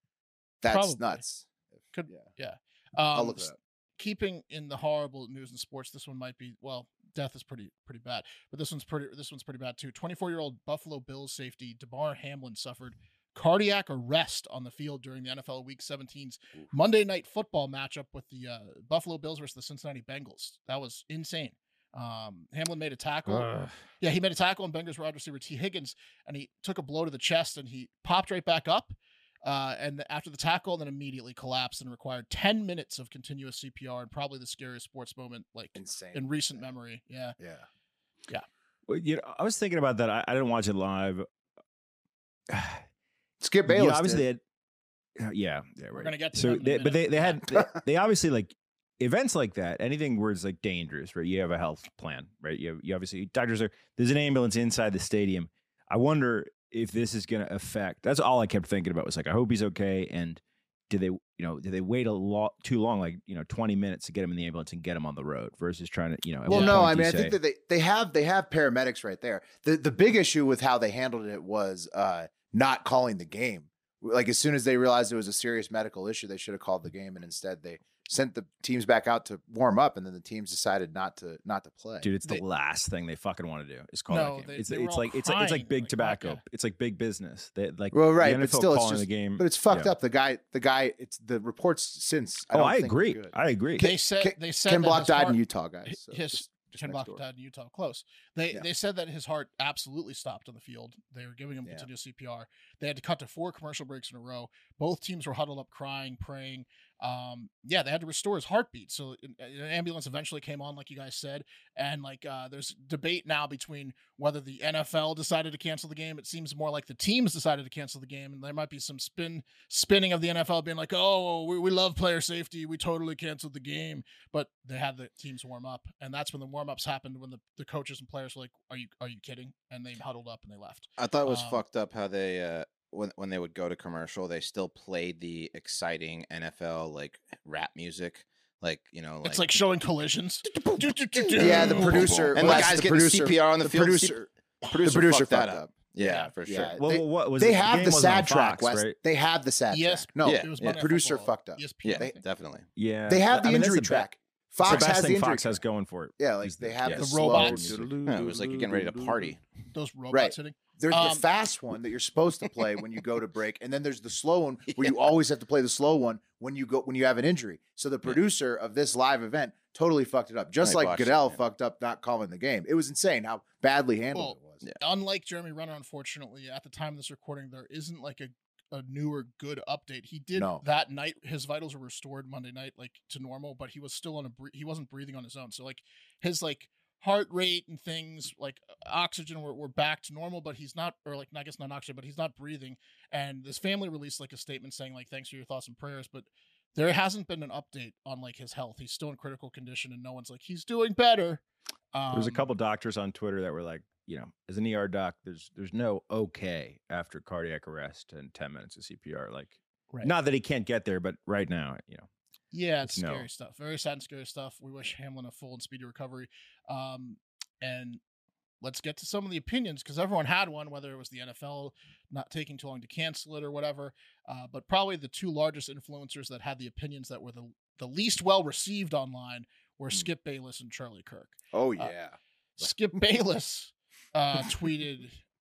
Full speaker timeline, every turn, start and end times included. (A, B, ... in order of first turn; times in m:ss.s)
0:00.6-0:02.3 A
0:00.6-0:01.2 B
0:01.9-0:23.5 B
0:03.1-0:03.5 A
0:23.3-0:23.7 C
0:24.0-0:37.4 B
0:35.7-0:36.7 A
0:37.4-0:37.6 A
0:38.9-0:41.2 C
0:42.5-0:42.8 C
0:43.4-0:44.2 A
0:43.7-0:44.4 C
0:45.2-1:07.4 C
0:45.9-0:47.4 B
1:06.5-1:22.1 A
1:22.0-1:29.9 C
1:24.1-1:26.4 B
1:27.9-1:33.3 A
1:32.5-1:33.9 C
1:33.8-2:11.6 B
1:33.8-1:37.2 A
2:11.0-2:19.6 D
2:19.2-2:22.7 B
2:21.3-2:24.3 A
2:21.4-2:26.7 D
2:24.8-2:25.7 A
2:26.0-2:26.3 B
2:26.4-2:32.2 A
2:26.7-2:29.0 C
2:29.7-2:32.2 B
2:30.2-2:30.8 D
2:31.8-2:32.7 D
2:32.8-2:34.1 C
2:33.1-2:35.6 A
2:34.6-2:38.8 C
2:36.2-2:38.2 A
2:37.0-2:37.8 B
2:38.0-2:39.4 D
2:39.7-2:41.2 B
2:40.1-2:54.6 A
2:50.6-2:51.4 D
2:54.1-3:21.4 B
3:00.3-3:00.6 A
3:21.9-3:22.4 B
3:22.1-3:32.1 C
3:32.5-3:38.0 B
3:32.8-3:33.3 C
3:38.6-3:51.9 B
3:51.5-3:52.7 A
3:52.6-3:55.2 B